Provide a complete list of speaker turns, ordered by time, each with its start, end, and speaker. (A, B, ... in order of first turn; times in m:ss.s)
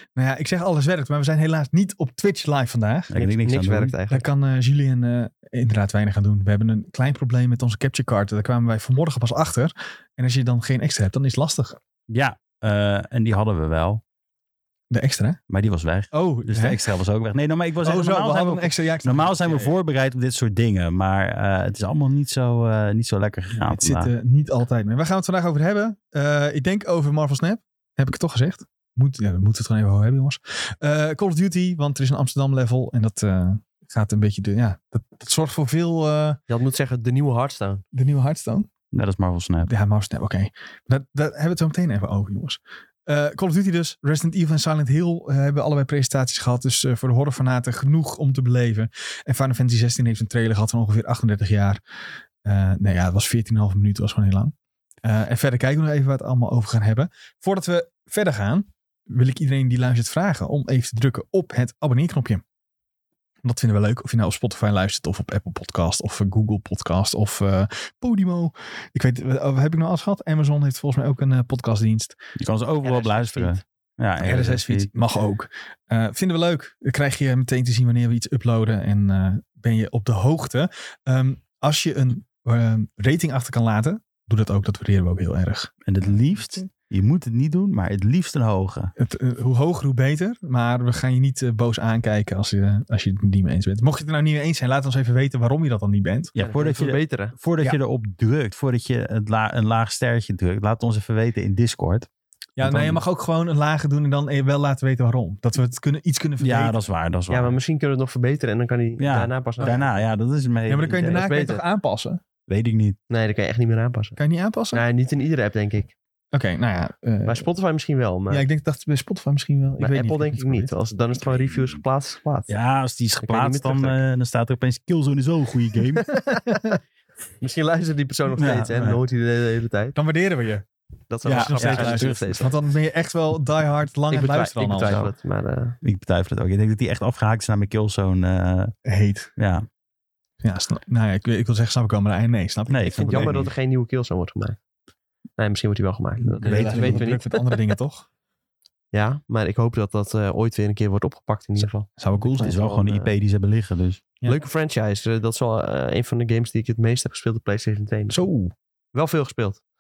0:00.2-0:03.1 A
0:03.1-0:04.0 B
0:03.1-0:04.3 C
0:04.1-0:11.8 A
0:12.1-0:14.0 B
0:14.9-0:15.4 A
0:15.5-0:24.1 B
0:16.1-0:16.8 A
0:17.8-0:19.7 A
0:23.6-0:36.4 A
0:36.5-0:37.8 C
0:37.9-0:38.7 A
0:38.9-0:39.7 B
0:39.6-0:51.8 A
0:52.4-1:02.4 A
1:03.4-1:12.2 A
1:12.4-1:14.9 B
1:12.8-1:13.6 C
1:14.2-1:26.5 A
1:25.8-1:28.9 B
1:29.0-1:36.4 A
1:36.4-1:42.1 B
1:36.4-1:37.4 C
1:42.6-1:46.8 A
1:42.6-1:43.0 B
1:46.4-1:47.6 B
1:47.3-1:49.8 C
1:49.0-1:51.3 B
1:50.7-1:52.2 A
1:51.1-1:51.6 C
1:52.5-1:53.0 B
1:53.1-1:54.2 C
1:54.2-1:54.8 A
1:54.7-1:55.9 C
1:56.3-1:57.5 A
1:57.3-1:58.5 C
1:58.3-2:00.7 A
1:59.8-2:02.5 C
2:02.5-2:06.2 B
2:03.2-2:04.0 C
2:06.1-2:06.8 A
2:07.4-2:10.0 C
2:08.3-2:09.0 B
2:10.0-2:10.6 A
2:11.1-2:12.5 C
2:11.3-2:12.4 B
2:11.3-2:15.1 A
2:14.1-2:15.8 C
2:15.8-2:18.7 B
2:18.8-2:19.3 A
2:19.4-2:19.7 B
2:20.4-2:23.4 A
2:22.7-2:23.5 B
2:22.9-2:24.6 C
2:25.4-2:27.8 C
2:26.2-2:28.1 A
2:26.4-2:27.1 B
2:28.9-2:33.1 C
2:32.0-2:32.6 A
2:32.2-2:34.0 B
2:34.3-2:38.2 C
2:38.1-2:38.5 A
2:38.9-2:39.6 C